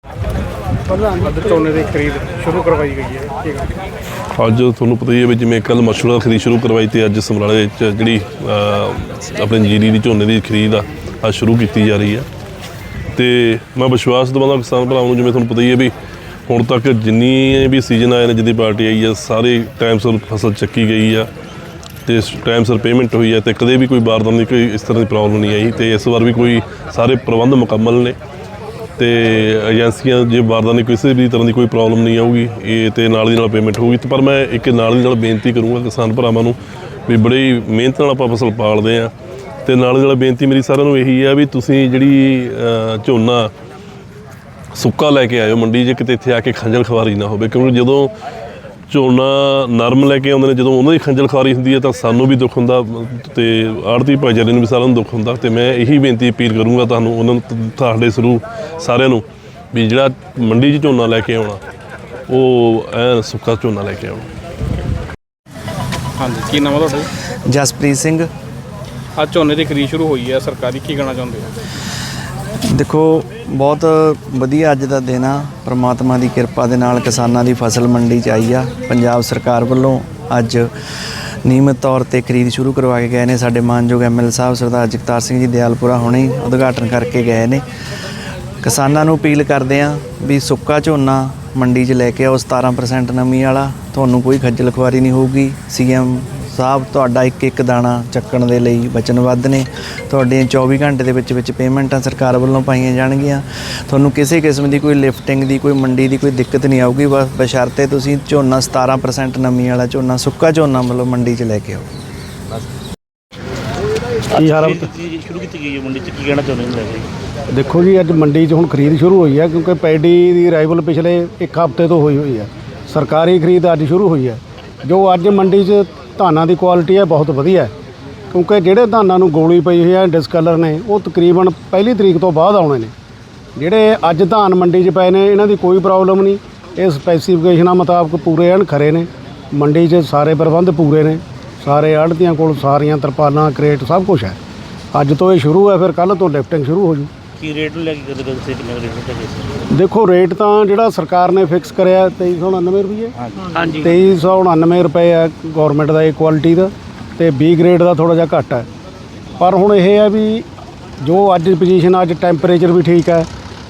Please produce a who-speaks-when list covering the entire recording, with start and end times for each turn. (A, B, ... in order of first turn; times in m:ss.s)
0:00.9-0:03.7 A
0:04.4-0:12.2 B
0:13.1-0:15.9 B
0:16.5-0:21.3 B
0:22.0-0:28.2 B
0:29.0-0:39.1 B
0:39.6-0:43.5 B
0:44.8-0:48.1 B
0:48.9-1:01.6 B
1:02.3-1:04.2 B
1:06.2-1:07.1 A
1:07.5-1:08.3 C
1:09.2-1:11.5 A
1:12.7-1:20.7 C
1:21.4-1:27.6 C
1:28.6-1:51.9 C
1:54.3-1:57.1 D
1:54.3-1:54.9 E
1:57.5-2:07.7 E
2:08.3-2:12.9 E
2:13.6-2:24.4 E
2:24.9-2:27.1 E
2:27.4-2:29.6 D
2:29.7-2:33.1 E
2:33.2-2:34.0 D
2:33.8-2:38.7 E
2:39.4-2:40.4 E
2:41.0-2:43.3 E